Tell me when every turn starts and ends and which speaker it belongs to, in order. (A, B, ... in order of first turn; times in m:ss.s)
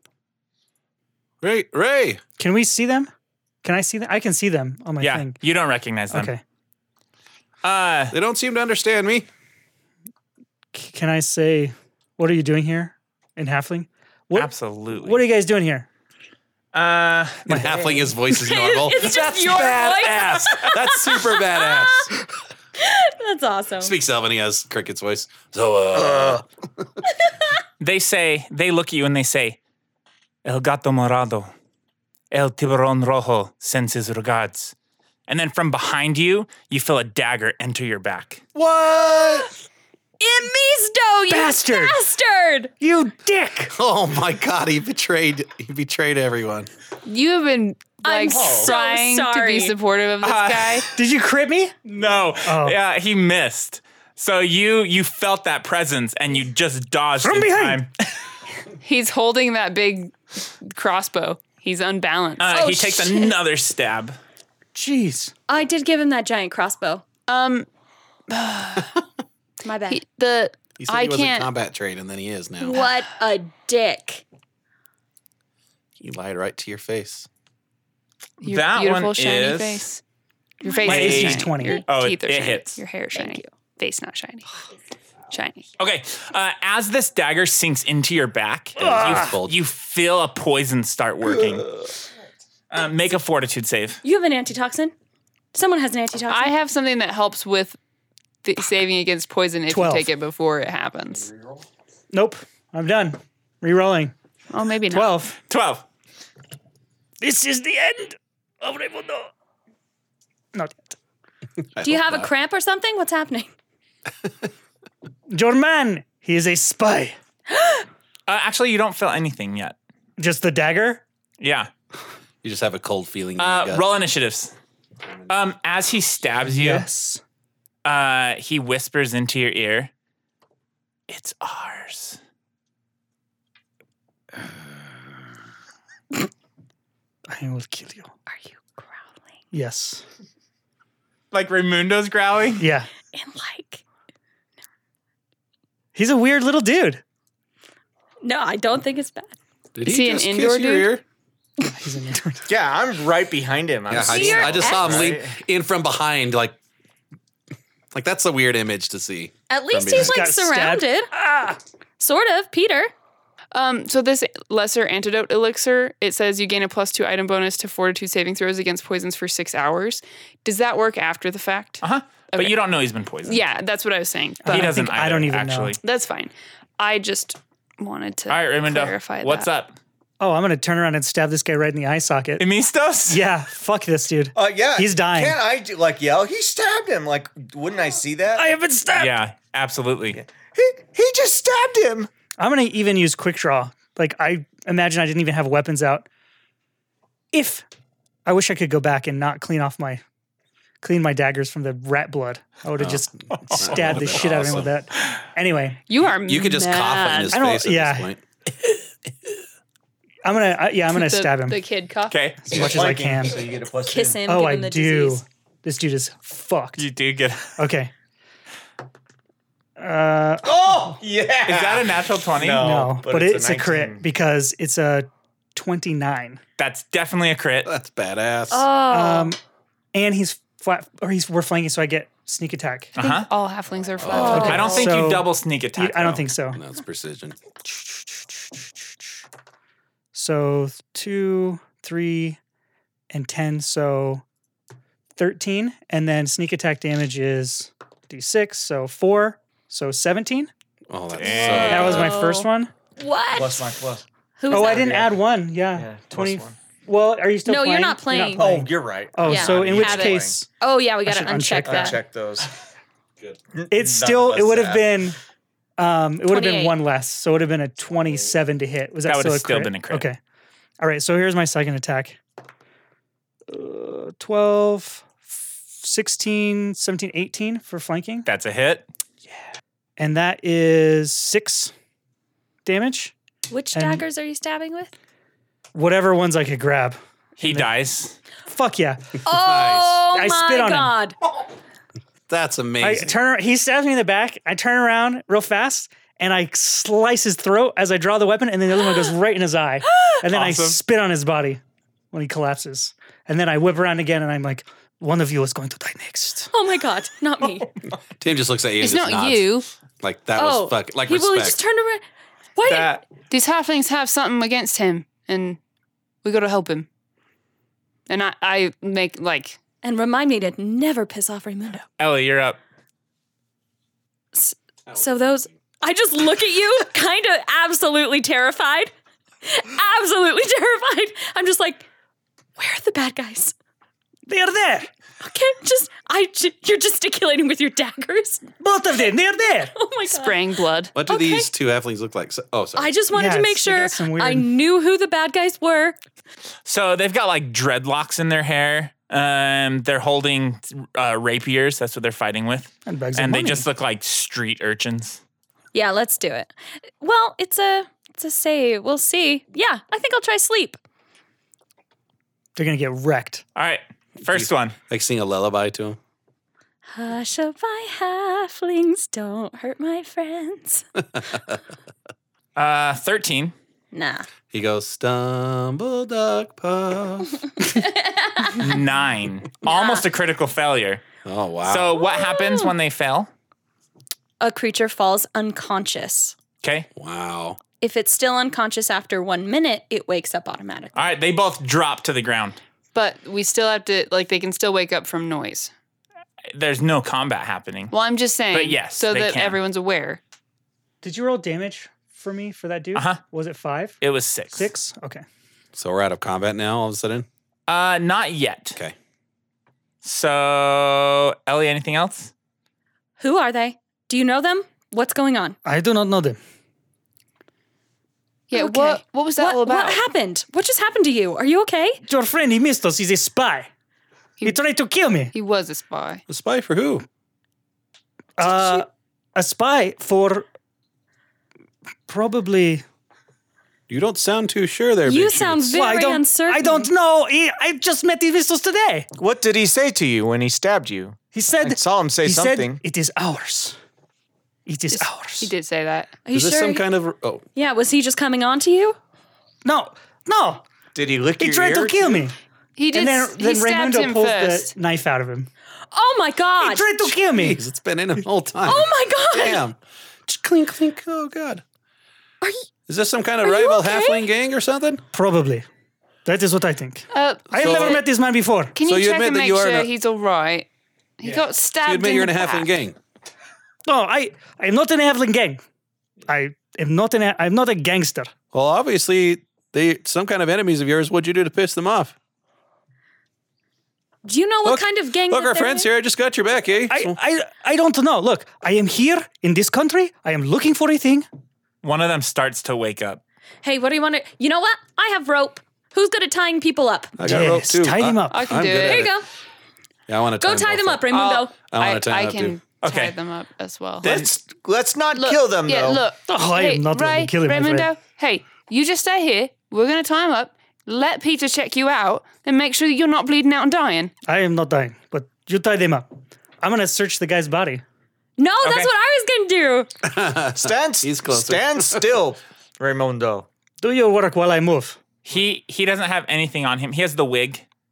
0:01.4-0:02.2 A
0:02.4-0:03.1 B
0:03.6-0:05.4 B
0:05.0-0:06.3 C
0:06.1-0:06.4 B
0:07.6-0:08.1 C
0:08.1-0:09.3 A
0:10.7-0:15.9 B
0:14.3-0:15.2 C
0:16.7-0:17.6 C
0:17.5-0:22.2 A
0:17.5-0:18.1 B
0:18.3-0:22.1 D
0:22.8-0:23.9 D
0:23.8-0:26.4 A
0:27.8-0:29.6 C
0:30.4-0:31.5 C
0:32.3-0:34.7 C
0:35.3-0:38.4 C
0:38.5-0:39.5 A
0:40.2-0:42.7 D
0:41.3-0:42.0 B
0:42.8-0:43.7 B
0:43.7-0:46.7 A
0:47.0-0:50.9 E
0:48.0-0:49.7 D
0:48.3-0:48.7 C
0:50.2-0:50.8 C
0:50.9-0:51.8 B
0:51.8-0:57.9 C
0:52.4-0:52.8 B
0:57.2-0:57.8 B
0:58.8-1:02.8 E
1:02.4-1:04.2 C
1:02.5-1:03.3 D
1:04.7-1:05.3 B
1:05.5-1:07.0 D
1:07.3-1:07.7 E
1:08.3-1:08.9 E
1:09.6-1:10.0 D
1:09.9-1:11.5 E
1:10.8-1:12.8 A
1:12.6-1:14.2 D
1:16.0-1:17.3 A
1:18.4-1:19.9 C
1:18.4-1:20.0 E
1:20.6-1:24.5 E
1:20.8-1:21.8 B
1:20.8-1:22.8 C
1:23.1-1:23.5 D
1:25.3-1:25.7 E
1:25.8-1:31.8 C
1:28.8-1:29.6 A
1:28.8-1:29.3 B
1:32.7-1:34.0 C
1:34.0-1:34.9 D
1:35.5-1:36.5 D
1:36.3-1:37.8 E
1:38.4-1:41.3 E
1:39.7-1:40.1 B
1:42.1-1:44.1 B
1:44.5-1:45.2 E
1:44.9-1:45.3 B
1:45.5-1:45.8 C
1:47.2-1:49.3 B
1:50.5-1:50.9 B
1:51.7-1:52.3 A
1:51.8-1:53.5 D
1:55.3-1:57.2 B
1:57.5-1:57.8 D
1:58.3-1:59.8 C
2:00.2-2:01.0 B
2:01.4-2:01.7 C
2:02.4-2:03.8 A
2:03.4-2:04.5 C
2:05.3-2:06.9 C
2:06.4-2:07.2 B
2:07.8-2:09.9 C
2:11.1-2:12.2 C
2:17.3-2:18.1 B
2:18.3-2:19.2 D
2:19.5-2:20.0 B
2:21.3-2:22.6 C
2:22.6-2:22.9 B
2:23.1-2:23.8 D
2:25.9-2:27.0 B
2:28.2-2:29.3 D
2:29.8-2:31.0 A
2:29.8-2:31.0 E
2:31.7-2:32.5 B
2:32.5-2:35.3 F
2:33.9-2:36.6 A
2:34.0-2:35.0 D
2:37.9-2:40.2 A
2:39.5-2:41.1 D
2:40.0-2:41.6 B
2:42.0-2:42.9 D
2:43.5-2:52.5 E
2:51.8-2:53.4 C
2:53.2-2:54.8 E
2:54.4-2:55.8 B
2:54.4-2:55.8 C
2:55.8-2:59.5 E
2:58.3-2:59.8 C
3:00.2-3:02.4 B
3:02.4-3:03.2 C
3:03.1-3:05.4 B
3:04.3-3:08.4 F
3:08.3-3:09.2 B
3:08.9-3:10.2 C
3:10.1-3:12.1 F
3:12.4-3:16.1 B
3:17.3-3:17.6 B
3:18.2-3:20.0 B
3:20.8-3:25.8 B
3:22.8-3:24.7 A
3:25.9-3:27.4 E
3:26.2-3:28.2 A
3:27.3-3:28.1 B
3:30.2-3:31.6 B
3:30.9-3:32.2 E
3:32.1-3:32.5 C
3:32.4-3:33.5 B
3:32.5-3:34.2 F
3:33.8-3:35.2 D
3:34.2-3:36.9 B
3:36.8-3:37.6 C
3:37.6-3:37.9 B
3:39.8-3:41.0 B
3:40.4-3:44.0 F
3:41.4-3:42.7 C
3:42.5-3:46.4 B
3:46.6-3:47.7 C
3:47.6-3:48.7 A
3:48.5-3:49.3 D
3:48.9-3:49.4 B
3:49.9-3:52.9 B
3:53.0-3:53.3 C
3:53.0-3:54.9 E
3:54.0-3:54.6 A
3:54.1-3:54.8 D
3:54.2-3:56.6 B
3:54.3-3:56.2 C
3:56.5-3:57.4 A
4:00.1-4:02.4 B
4:03.1-4:04.2 B
4:05.2-4:10.5 B
4:10.9-4:12.2 A
4:11.1-4:12.0 C
4:11.3-4:13.7 D
4:11.6-4:12.7 B
4:13.3-4:15.1 F
4:14.4-4:14.9 D
4:14.5-4:20.5 B
4:15.7-4:16.6 F
4:17.4-4:18.4 D
4:18.4-4:20.3 F
4:19.2-4:22.0 D
4:21.0-4:22.0 B
4:21.6-4:22.5 F
4:23.5-4:24.8 F
4:23.7-4:25.2 B
4:25.8-4:30.2 B
4:26.3-4:26.8 D
4:29.0-4:30.1 C
4:30.8-4:32.2 B
4:33.5-4:38.3 B
4:38.2-4:38.8 C
4:40.0-4:41.7 B
4:42.6-4:43.1 B
4:43.5-4:44.9 D
4:43.7-4:44.0 B
4:45.7-4:47.7 B
4:47.4-4:48.2 C
4:48.4-4:49.2 B
4:49.2-4:51.2 D
4:49.3-4:50.0 A
4:50.1-4:50.9 B
4:52.3-4:53.2 A
4:52.8-5:01.6 B
4:58.8-4:59.1 D
4:59.8-5:00.2 D
5:00.3-5:00.8 C
5:02.1-5:06.5 B
5:06.5-5:07.7 D
5:08.2-5:09.5 A
5:08.8-5:09.7 E
5:10.0-5:11.6 A
5:10.4-5:12.0 D
5:12.6-5:13.0 D
5:12.6-5:13.0 C
5:13.3-5:15.6 E
5:16.2-5:16.9 E
5:18.1-5:19.6 E
5:19.8-5:21.8 D
5:22.0-5:22.6 C
5:24.3-5:28.9 D
5:24.9-5:25.4 A
5:29.4-5:31.8 D
5:32.6-5:33.5 D
5:34.3-5:34.9 B
5:35.2-5:38.5 D
5:38.6-5:39.7 B
5:39.7-5:41.5 D
5:40.1-5:40.9 E
5:40.9-5:42.9 A
5:42.8-5:46.0 D
5:43.1-5:44.5 B
5:46.6-5:55.2 C
5:52.8-5:53.6 B
5:55.7-6:00.8 D
6:02.6-6:03.4 B
6:03.6-6:04.8 C
6:04.3-6:06.0 A
6:06.9-6:10.8 D
6:12.6-6:13.5 C
6:13.9-6:14.2 D
6:14.5-6:17.4 A
6:17.6-6:18.6 D
6:18.6-6:21.0 C
6:19.6-6:20.0 D
6:21.2-6:22.0 A
6:21.6-6:23.3 C
6:22.0-6:22.7 D
6:24.4-6:26.3 D
6:26.6-6:26.9 C
6:27.0-6:27.6 A
6:27.8-6:31.1 D
6:30.9-6:32.6 C
6:32.9-6:35.7 E
6:36.5-6:37.9 C
6:37.9-6:40.2 E
6:38.5-6:39.6 C
6:41.0-6:44.0 B
6:42.9-6:43.2 C
6:44.0-6:44.7 C
6:44.5-6:45.2 B
6:45.7-6:47.3 A
6:47.7-6:48.8 C
6:50.0-6:52.3 C
6:53.2-6:55.6 D
6:55.6-6:56.4 B
6:58.5-7:00.0 E
6:58.5-7:02.0 D
7:02.0-7:03.7 B
7:04.4-7:05.3 B
7:05.3-7:06.2 E
7:06.3-7:07.0 A
7:08.4-7:10.4 B
7:08.4-7:08.8 D
7:12.1-7:12.8 B
7:13.9-7:15.8 A
7:15.0-7:16.9 D
7:15.7-7:19.1 B
7:19.2-7:22.8 F
7:21.3-7:23.8 B
7:24.6-7:25.5 B
7:24.9-7:26.1 E
7:26.2-7:26.9 D
7:26.3-7:27.4 A
7:27.5-7:29.0 D
7:29.6-7:30.6 B
7:30.9-7:32.2 F
7:31.4-7:32.4 B
7:32.8-7:34.7 E
7:32.9-7:35.5 B
7:35.9-7:36.9 D
7:36.6-7:37.6 B
7:37.0-7:41.6 A
7:38.6-7:39.6 D
7:42.9-7:45.0 A
7:43.4-7:44.3 D
7:45.1-7:45.7 B
7:46.2-7:48.7 B
7:47.1-7:48.1 E
7:47.6-7:48.0 A
7:48.7-7:50.7 E
7:48.8-7:49.9 A
7:51.2-7:52.7 E
7:51.8-7:53.0 A
7:53.8-7:55.6 B
7:56.3-7:58.3 B
7:58.5-8:02.1 A
8:04.2-8:05.9 D
8:04.6-8:07.2 A
8:06.9-8:11.2 B
8:11.8-8:13.2 C
8:13.6-8:17.2 D
8:17.2-8:19.1 A
8:17.2-8:18.5 B
8:18.3-8:19.1 E
8:18.8-8:19.3 D
8:20.1-8:21.1 A
8:20.4-8:21.5 D
8:21.1-8:24.1 E
8:21.7-8:22.6 A
8:22.8-8:23.2 C
8:24.0-8:24.3 C
8:24.0-8:26.0 F
8:25.1-8:34.1 E
8:26.2-8:27.9 B
8:34.2-8:37.8 B
8:38.4-8:39.9 D
8:38.6-8:38.9 C
8:40.0-8:42.1 A
8:40.6-8:43.5 F
8:43.8-8:45.0 B
8:45.2-8:47.6 C